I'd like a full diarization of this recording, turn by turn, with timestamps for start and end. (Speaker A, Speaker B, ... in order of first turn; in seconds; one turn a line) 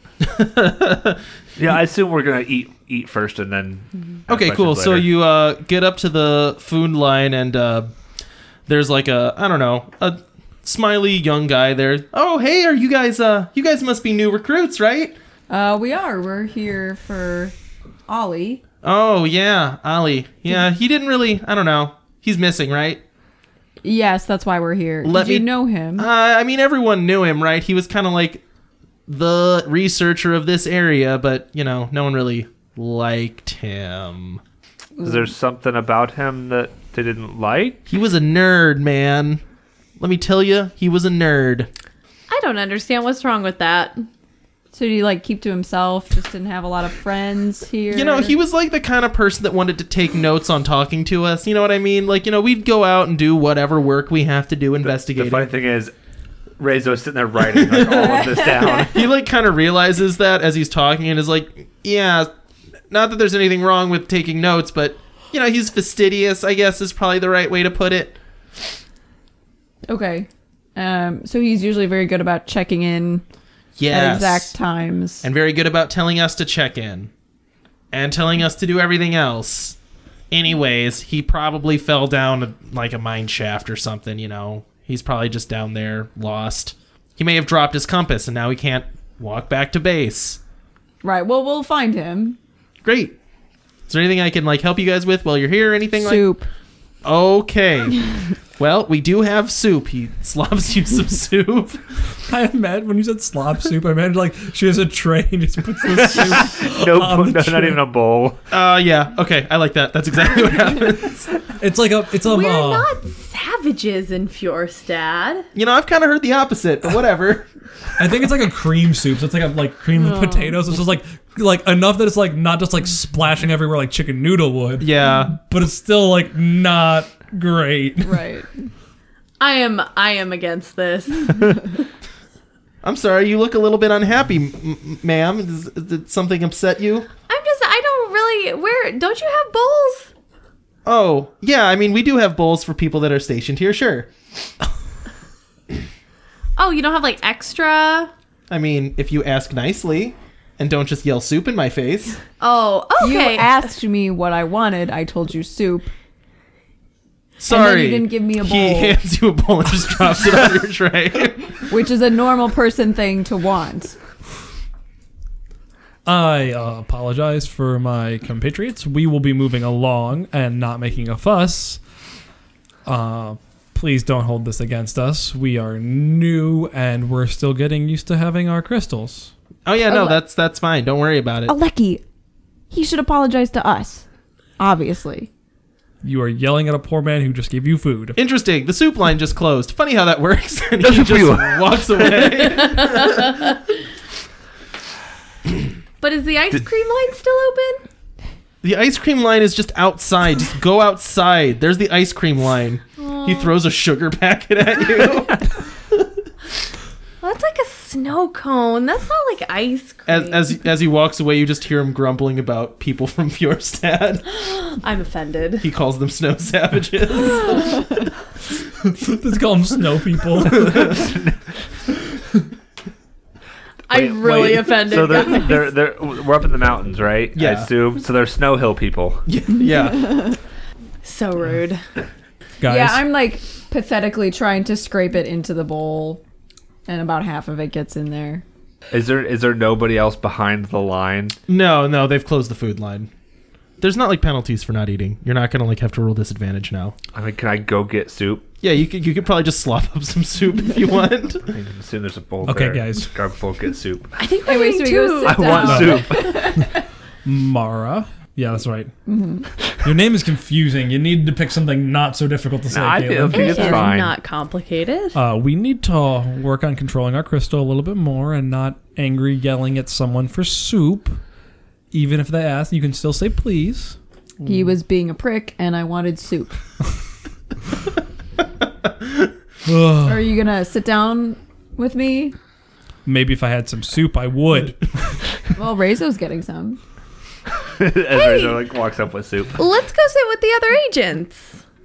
Speaker A: 0.2-1.2
Speaker B: 1.6-5.1
Speaker A: 4.3-7.9
Speaker A: 8.7-15.2
Speaker C: 15.5-17.5
Speaker C: 18.1-18.6
Speaker A: 18.8-23.0
Speaker C: 23.8-26.1
Speaker A: 25.0-28.4
Speaker A: 29.1-34.4
Speaker C: 35.0-35.2
Speaker B: 35.0-37.8
Speaker A: 37.9-39.4
Speaker A: 40.0-41.7
Speaker D: 42.3-44.0
Speaker C: 44.7-48.3
Speaker A: 47.9-55.5
Speaker B: 54.9-55.9
Speaker B: 56.6-59.1
Speaker A: 57.5-62.3
Speaker C: 57.9-58.9
Speaker A: 62.9-68.2
Speaker C: 69.9-73.2
Speaker A: 73.8-74.5
Speaker C: 73.9-75.2
Speaker A: 75.2-77.1
Speaker A: 77.9-79.8
Speaker A: 80.3-90.4
Speaker C: 91.0-92.4
Speaker A: 92.8-93.2
Speaker A: 93.9-96.3
Speaker C: 96.0-96.5
Speaker A: 97.0-101.8
Speaker E: 102.3-107.8
Speaker B: 105.9-108.4
Speaker A: 108.5-111.3
Speaker E: 111.6-112.9
Speaker D: 112.2-115.5
Speaker A: 115.5-117.5
Speaker E: 118.0-128.3
Speaker A: 124.8-125.3
Speaker C: 128.0-128.5
Speaker D: 129.4-131.6
Speaker A: 132.8-137.1
Speaker D: 137.3-140.1
Speaker A: 140.8-144.1
Speaker D: 146.6-148.1
Speaker A: 148.5-152.2
Speaker D: 152.4-153.6
Speaker C: 153.0-155.9
Speaker A: 157.4-161.5
Speaker C: 157.5-158.9
Speaker C: 161.7-163.9
Speaker E: 166.1-171.8
Speaker E: 172.8-179.3
Speaker A: 179.7-181.5
Speaker C: 179.9-180.2
Speaker C: 181.5-182.0
Speaker C: 182.7-184.0
Speaker C: 184.6-185.3
Speaker E: 186.0-188.2
Speaker A: 188.2-193.4
Speaker B: 190.8-192.2
Speaker D: 192.5-193.6
Speaker D: 196.0-197.8
Speaker A: 198.6-205.5
Speaker D: 203.0-203.5
Speaker D: 207.2-210.4
Speaker A: 210.1-214.2
Speaker D: 214.3-215.7
Speaker A: 215.6-217.8
Speaker E: 218.8-221.1
Speaker B: 220.7-221.4
Speaker D: 223.9-225.7
Speaker B: 223.9-229.2
Speaker A: 227.3-227.7
Speaker A: 229.3-230.3
Speaker C: 229.6-230.4
Speaker D: 231.0-231.8
Speaker E: 232.6-233.0
Speaker C: 232.7-236.2
Speaker C: 236.8-238.4
Speaker B: 238.9-241.4
Speaker A: 241.5-243.1
Speaker A: 243.8-246.9
Speaker B: 247.1-248.5
Speaker A: 248.6-251.4
Speaker B: 251.4-254.1
Speaker E: 252.4-253.1
Speaker D: 254.2-256.0
Speaker C: 254.4-256.7
Speaker B: 255.2-256.5
Speaker E: 255.6-258.9
Speaker C: 259.1-259.5
Speaker E: 259.8-263.8
Speaker B: 262.7-264.1
Speaker D: 263.3-265.2
Speaker E: 265.1-271.2
Speaker E: 271.9-274.6
Speaker C: 274.4-276.6
Speaker E: 279.6-280.3
Speaker C: 280.0-282.3
Speaker E: 283.0-285.2
Speaker C: 285.6-286.8
Speaker B: 287.7-289.6
Speaker D: 288.1-288.6
Speaker D: 289.6-291.5